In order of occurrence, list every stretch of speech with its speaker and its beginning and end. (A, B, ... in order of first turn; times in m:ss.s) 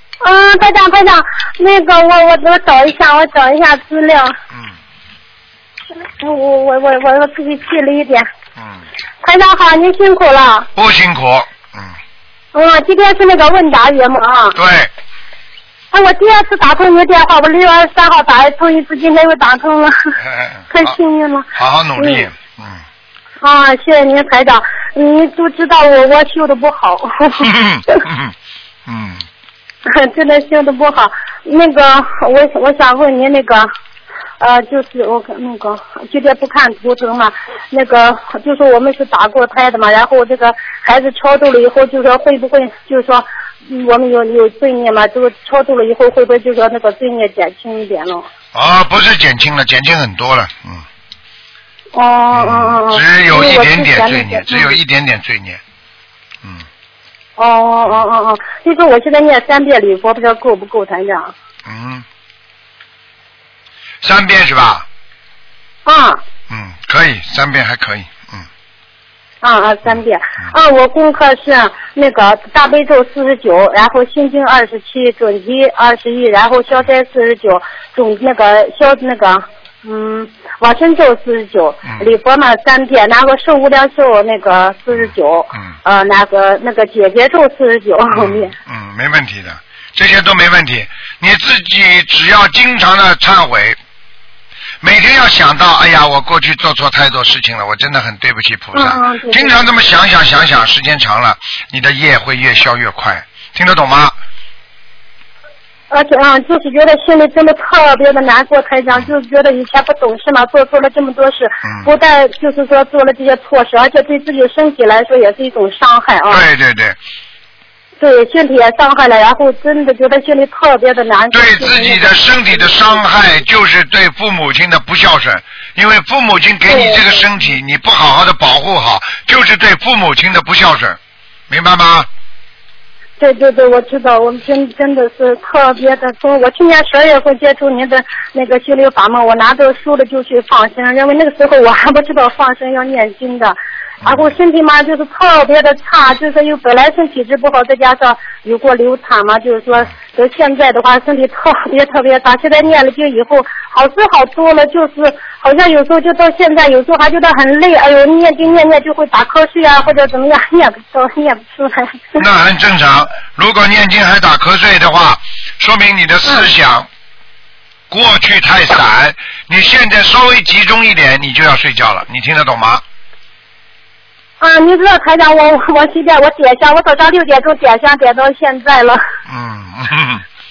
0:00.2-0:04.4 A
0:06.2-0:08.3 A
0:08.6-0:08.8 B
0:09.2-0:10.7 A
0:10.8-0:12.0 B
0:12.5-0:14.6 A
0:14.6-0:14.9 B
0:15.9-0:20.2 A
0:20.2-0:21.0 B
0:20.7-0:22.3 A
0:21.6-0:22.8 B
0:23.4-0:28.0 A
0:27.4-0:28.3 B
0:28.9-0:29.2 B
0:29.9-0:33.7 A
0:34.4-0:48.3 A
0:48.5-0:50.8 B
0:52.0-0:54.8 A
0:52.3-0:55.6 B
0:57.4-1:01.3 A
1:01.7-1:02.0 B
1:04.0-1:04.9 B
1:05.9-1:06.2 A
1:06.5-1:08.5 B
1:09.4-1:28.5 A
1:24.9-1:25.7 B
1:28.1-1:33.8 B
1:34.8-1:44.2 B
1:38.8-1:39.6 A
1:45.9-1:56.4 A
1:51.6-1:51.9 B
1:56.3-1:57.0 B
1:58.0-2:03.0 A
2:01.3-2:11.0 B
2:06.7-2:07.0 A
2:11.5-2:12.1 B
2:13.2-2:42.2 A
2:24.0-2:24.3 B
2:42.2-2:46.9 B
2:47.9-2:52.8 B
2:54.4-2:59.0 A
2:59.3-3:00.2 B